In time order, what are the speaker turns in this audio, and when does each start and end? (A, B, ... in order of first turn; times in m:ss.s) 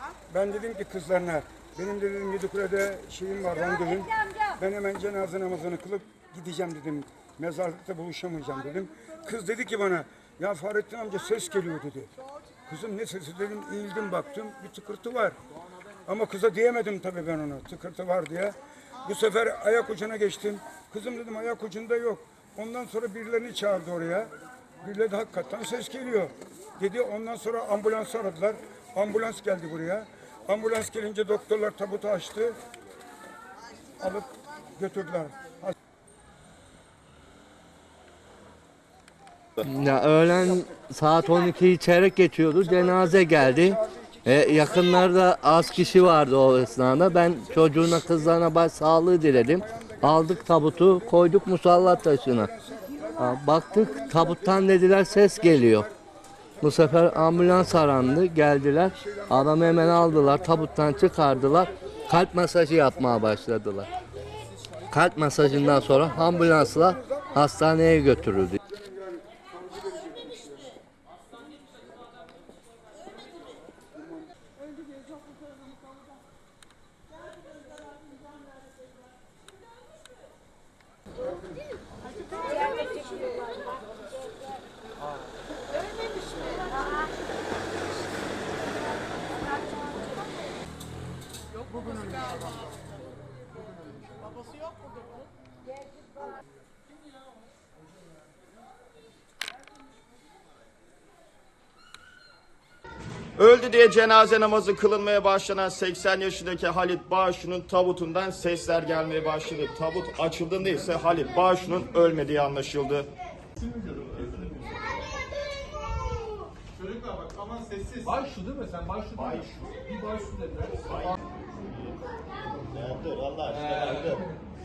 0:00.3-0:12.1 A
0:12.7-0:15.4 A
0:16.1-0:32.6 A
0:34.0-0:35.6 A
0:39.6-0:52.5 B
0:52.7-0:53.1 A
0:53.2-0:55.9 B
0:56.6-1:03.9 B
1:04.9-1:08.6 B
1:08.9-1:10.4 A
1:43.4-1:53.1 C
1:53.6-1:54.5 D
1:53.9-1:54.7 C
1:56.8-2:01.2 D
1:59.2-1:59.6 C
2:00.8-2:02.0 C
2:02.5-2:04.3 C
2:03.5-2:04.2 D